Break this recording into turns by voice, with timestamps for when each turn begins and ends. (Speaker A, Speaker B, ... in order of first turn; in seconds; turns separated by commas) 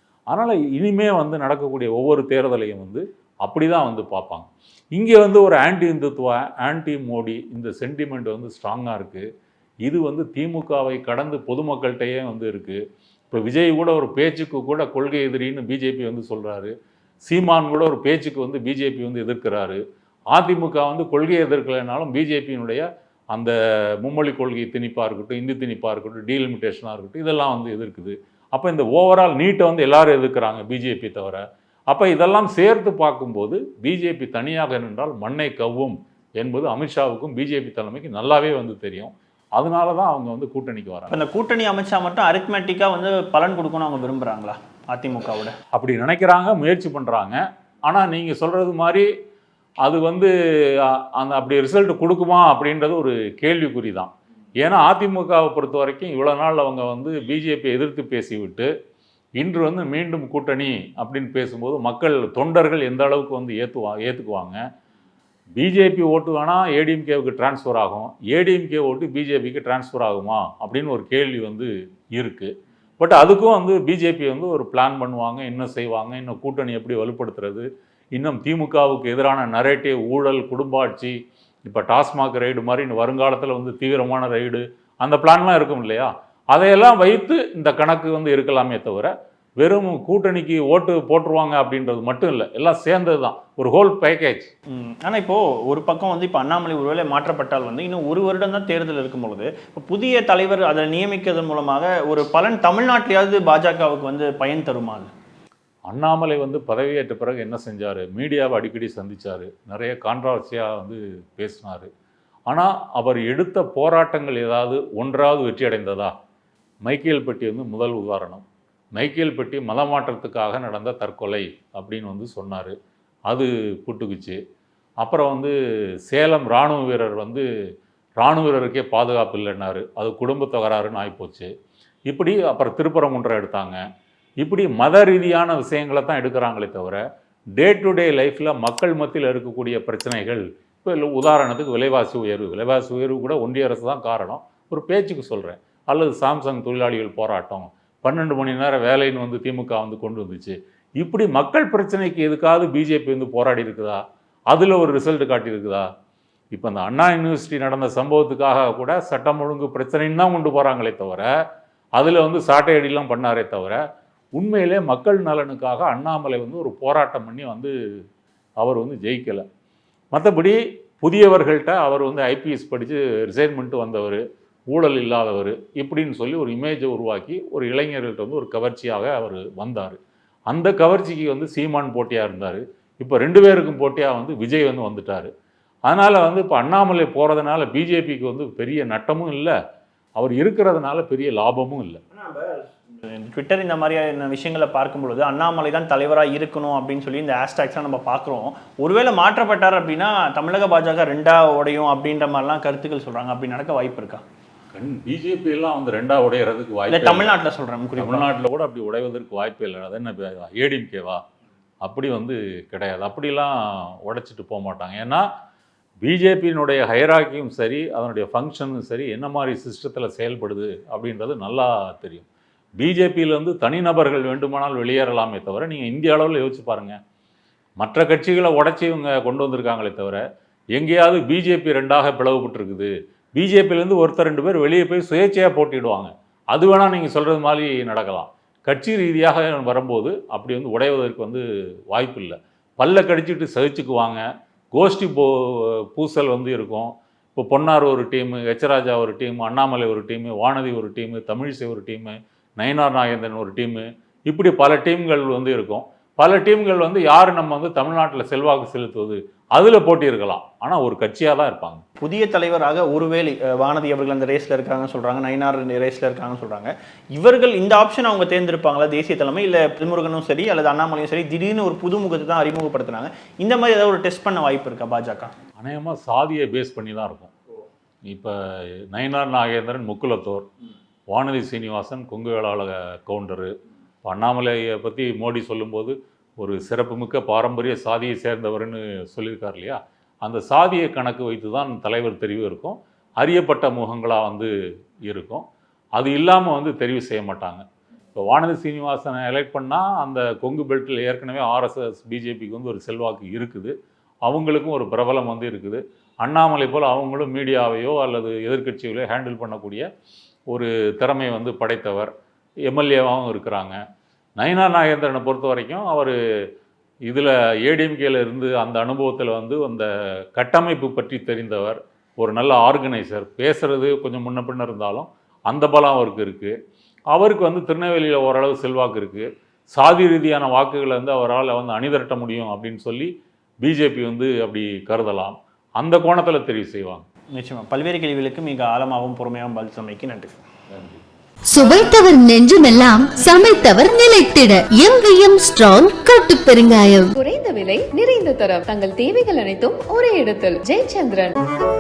Speaker A: 0.3-9.3, Speaker A: 9.8-41.2, Speaker B: 41.1-45.5, Speaker A: 45.7-49.1, Speaker A: 49.8-58.7, Speaker A: 59.4-64.6, Speaker A: 65.6-94.5, Speaker B: 94.7-105.1, Speaker A: 105.9-111.9, Speaker A: 112.5-116.2, Speaker A: 116.8-118.5, Speaker A: 119.0-122.8, Speaker A: 123.3-124.4, Speaker A: 125.0-125.5, Speaker A: 126.1-127.5, Speaker A: 128.2-131.5, Speaker A: 132.1-133.8, Speaker A: 134.4-137.0, Speaker A: 137.6-155.9, Speaker A: 156.5-161.3, Speaker A: 162.0-163.8, Speaker A: 164.3-167.7, Speaker A: 168.6-169.5, Speaker A: 170.1-180.0, Speaker A: 180.5-185.3, Speaker A: 185.9-189.6, Speaker A: 190.2-192.0, Speaker B: 192.1-204.2, Speaker A: 204.7-207.4, Speaker B: 206.9-208.3, Speaker A: 208.0-211.2, Speaker A: 211.8-215.2, Speaker A: 216.0-222.3, Speaker A: 222.8-227.0, Speaker A: 227.8-230.2, Speaker A: 230.7-261.8, Speaker B: 262.0-275.3, Speaker A: 275.6-277.3, Speaker A: 278.1-280.5, Speaker A: 281.1-283.5, Speaker A: 284.0-294.5, Speaker A: 295.1-303.7, Speaker A: 304.2-309.9, Speaker A: 310.5-312.1, Speaker A: 312.7-313.8, Speaker A: 314.4-316.2, Speaker A: 317.1-326.6, Speaker A: 327.1-337.1, Speaker B: 337.3-340.3, Speaker A: 340.7-341.0, Speaker C: 341.5-347.1, Speaker D: 347.2-351.4